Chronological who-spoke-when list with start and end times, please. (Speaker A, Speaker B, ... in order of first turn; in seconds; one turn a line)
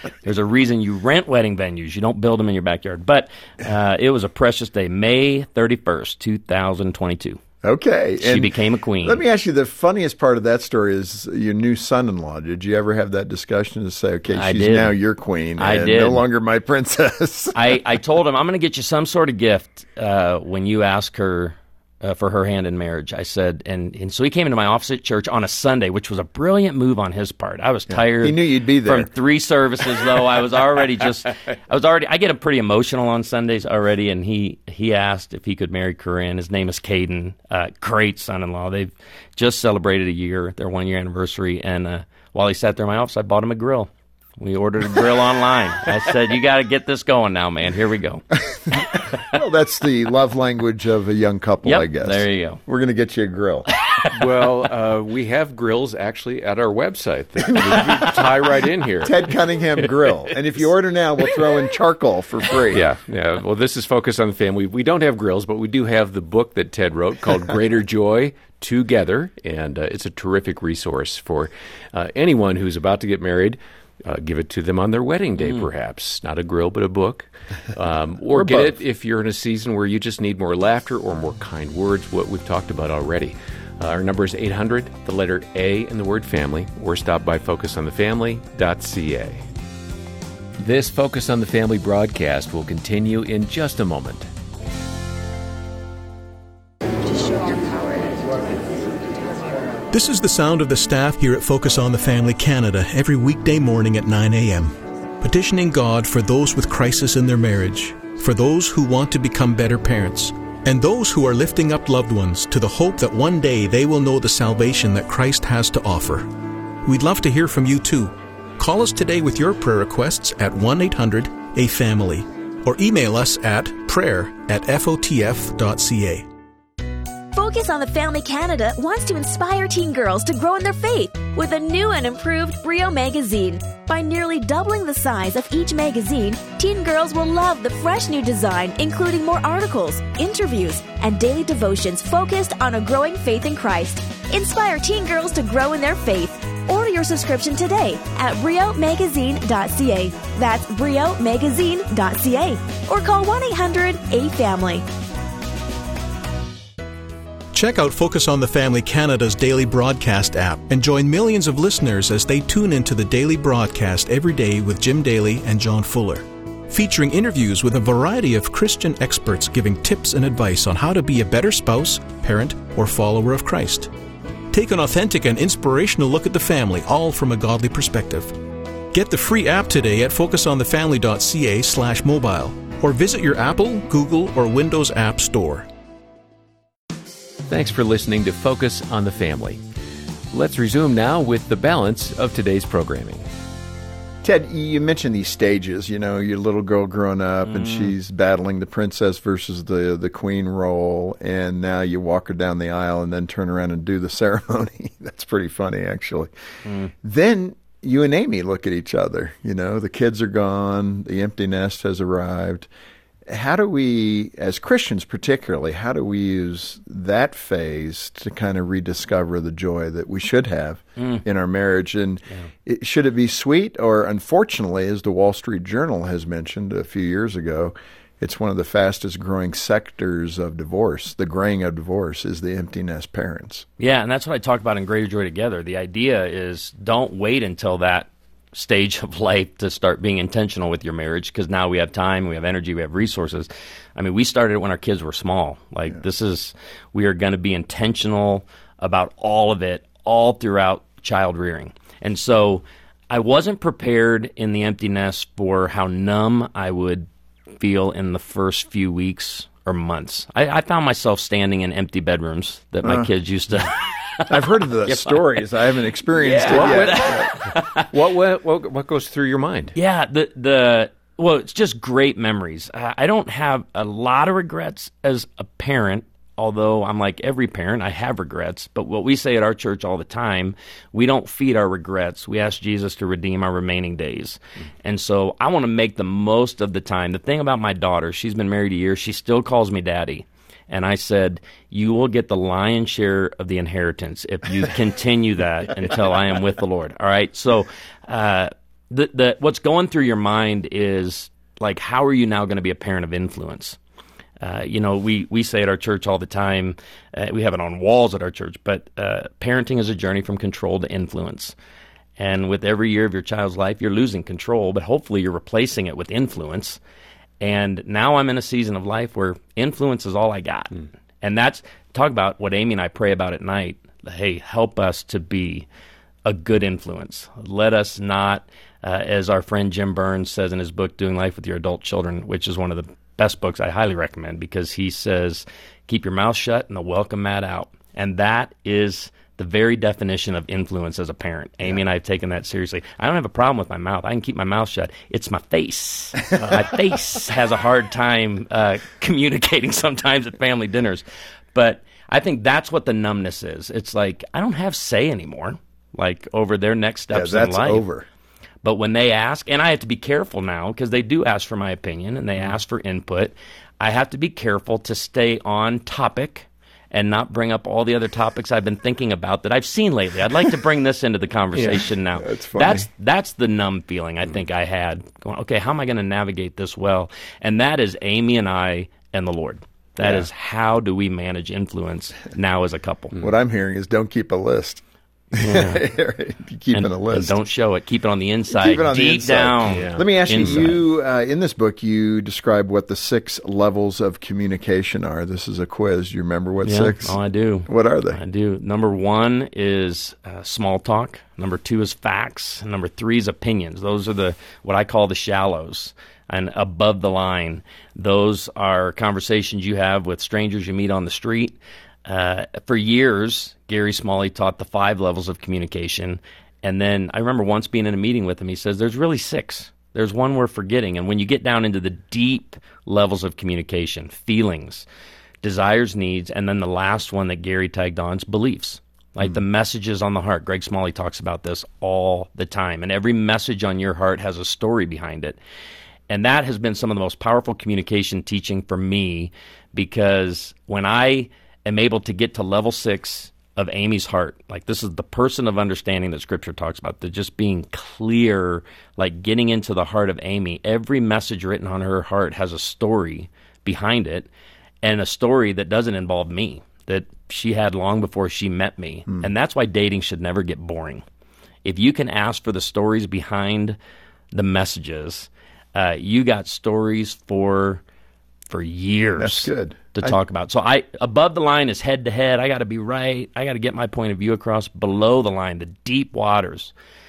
Speaker A: 0.2-7.4
Speaker B: 7.6-17.8
Speaker A: 8.2-9.2
Speaker A: 14.3-14.9
Speaker A: 15.6-16.2
Speaker A: 17.5-48.2
Speaker B: 27.9-29.1
Speaker B: 48.5-53.7
Speaker A: 51.6-52.6
Speaker C: 54.1-59.3
Speaker B: 57.5-58.2
Speaker B: 59.0-62.9
Speaker C: 62.7-89.4
Speaker B: 78.3-78.8
Speaker C: 90.6-94.3
Speaker D: 97.1-98.3
Speaker E: 99.9-116.3
Speaker E: 116.8-126.2
Speaker D: 127.3-154.8
Speaker E: 157.5-173.9
Speaker E: 174.5-178.3
Speaker E: 178.9-185.7
Speaker C: 187.5-189.6
Speaker C: 190.3-193.2
Speaker B: 194.2-206.3
Speaker A: 197.5-197.9
Speaker A: 206.7-206.9
Speaker B: 206.9-212.7
Speaker B: 213.3-233.7
Speaker A: 221.0-221.2
Speaker A: 233.8-257.1
Speaker A: 257.6-265.4
Speaker B: 262.8-263.1
Speaker B: 264.3-267.3
Speaker A: 266.2-267.9
Speaker C: 266.5-269.8
Speaker A: 269.8-303.8
Speaker A: 304.4-311.6
Speaker A: 312.2-316.8
Speaker A: 317.4-325.7
Speaker A: 326.3-357.8
Speaker B: 357.1-358.1
Speaker A: 358.6-383.2
Speaker B: 372.2-372.9
Speaker B: 383.2-384.8
Speaker A: 385.4-385.8
Speaker B: 385.4-387.4
Speaker A: 386.7-390.8
Speaker B: 388.5-398.2
Speaker C: 389.7-390.6
Speaker A: 396.6-424.9
Speaker A: 425.4-435.4
Speaker A: 436.1-454.3
Speaker A: 454.8-461.0
Speaker A: 461.6-463.8
Speaker A: 464.3-467.8
Speaker A: 468.5-476.7
Speaker B: 469.2-470.2